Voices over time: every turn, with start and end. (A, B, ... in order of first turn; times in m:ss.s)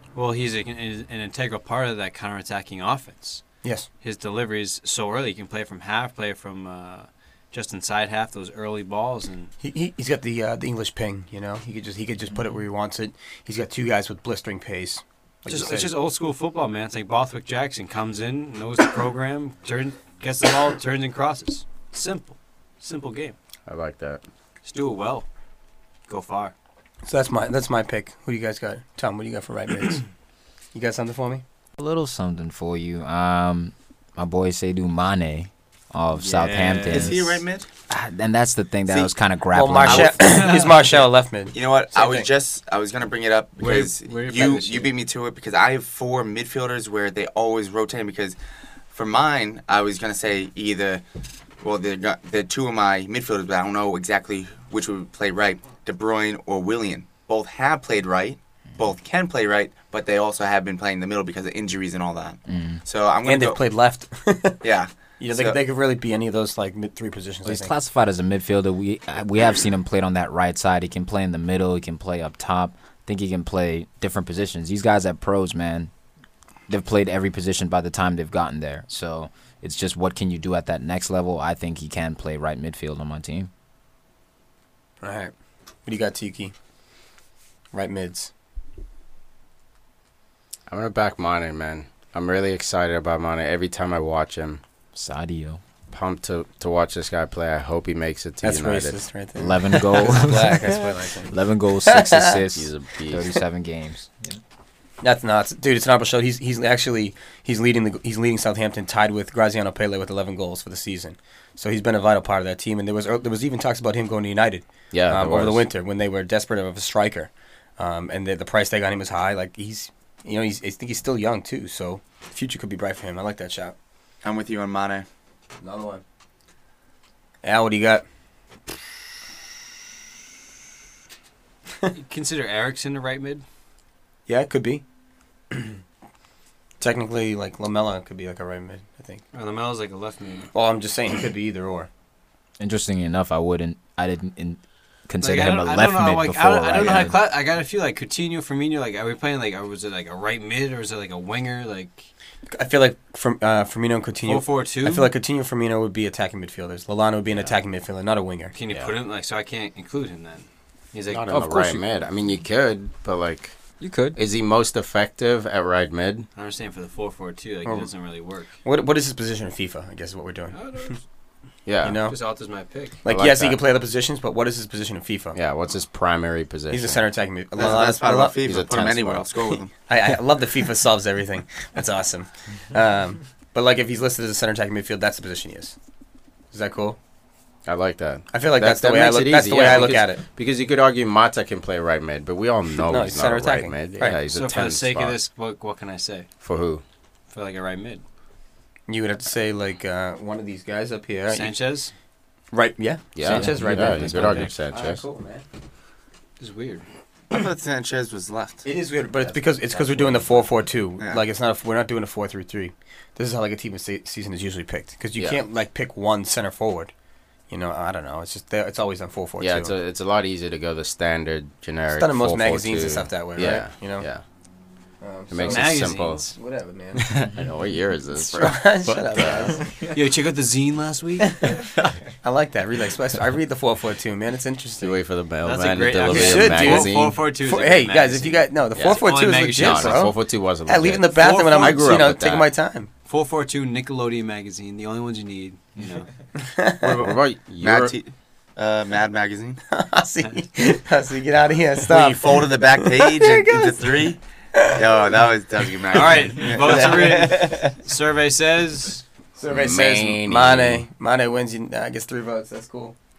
0:00.1-0:03.4 A
0:03.6-0:03.9 B
0:04.0-0:09.5 A
0:09.6-0:15.9 B
0:15.4-0:23.4 A
0:23.7-0:24.2 C
0:24.6-0:25.3 A
0:26.1-0:26.5 A
0:27.1-0:30.1 B
0:30.7-0:31.4 B
0:31.8-0:40.3 D
0:36.1-0:37.2 A
0:36.9-0:37.7 E
0:38.9-0:39.1 E
0:39.5-0:42.3 B
0:39.9-0:40.2 E
0:40.2-0:41.0 A
0:41.5-0:48.4 E
0:43.6-0:44.9 A
0:48.9-0:51.0 E
0:51.6-1:03.6 E
1:02.5-1:02.8 D
1:03.2-1:04.6 B
1:04.6-1:05.6 E
1:05.2-1:07.7 B
1:07.4-1:15.9 D
1:16.7-1:23.5 D
1:25.0-1:25.3 B
1:25.9-1:26.5 B
1:27.7-1:28.3 B
1:30.7-1:34.6 C
1:34.9-1:35.6 D
1:35.9-1:39.0 C
1:38.4-1:41.3 B
1:39.4-1:40.8 D
1:41.3-1:44.4 D
1:41.8-1:42.4 B
1:42.5-1:43.3 C
1:45.0-2:03.7 B
1:54.9-1:55.6 C
2:04.2-2:05.1 E
2:05.6-2:06.0 B
2:07.4-2:08.0 B
2:11.9-2:13.4 A
2:14.3-2:14.8 B
2:15.5-2:15.8 B
2:16.8-2:19.2 B
2:19.3-2:20.5 A
2:20.5-2:21.9 B
2:22.6-2:27.2 D
2:25.2-2:32.1 A
2:32.5-2:38.5 B
2:34.2-2:35.1 A
2:38.5-2:41.3 A
2:41.1-2:43.6 C
2:41.3-2:41.8 D
2:43.8-2:44.2 D
2:44.1-2:46.3 C
2:46.4-2:48.5 A
2:48.6-2:50.6 B
2:50.5-2:51.0 A
2:51.7-2:52.0 C
2:51.8-2:52.2 B
2:52.1-2:53.0 A
2:53.0-2:55.4 B
2:53.1-2:53.6 C
2:55.4-2:57.0 C
2:56.7-2:58.4 B
2:57.6-2:59.7 E
2:58.4-2:59.3 C
2:59.8-3:05.7 B
3:06.5-3:07.0 B
3:07.7-3:15.2 C
3:08.3-3:10.2 B
3:12.8-3:14.2 B
3:14.3-3:16.3 A
3:16.4-3:16.8 C
3:17.3-3:18.0 A
3:18.9-3:21.6 B
3:21.3-3:21.9 A
3:22.5-3:25.4 B
3:23.2-3:25.0 C
3:23.3-3:23.9 D
3:23.6-3:24.4 A
3:26.4-3:26.8 A
3:27.3-3:28.7 E
3:28.6-3:36.9 B
3:35.2-3:35.4 C
3:37.5-3:39.7 B
3:39.4-3:44.2 C
3:41.9-3:44.1 B
3:45.0-3:47.1 B
3:45.3-3:46.3 C
3:45.4-3:46.4 A
3:47.0-3:49.6 C
3:48.1-3:49.7 B
3:49.9-3:51.4 A
3:51.2-3:51.6 B
3:52.2-3:55.0 B
3:54.8-3:57.2 C
3:55.4-4:00.1 A
3:56.1-4:02.9 B
3:58.7-4:02.5 C
4:01.1-4:02.2 A
4:03.1-4:06.1 A
4:06.4-4:07.0 B
4:06.8-4:08.0 C
4:07.1-4:09.6 E
4:09.7-4:15.0 B
4:11.9-4:17.7 E
4:15.9-4:19.0 A
4:16.7-4:17.5 B
4:19.4-4:23.0 B
4:19.5-4:20.8 C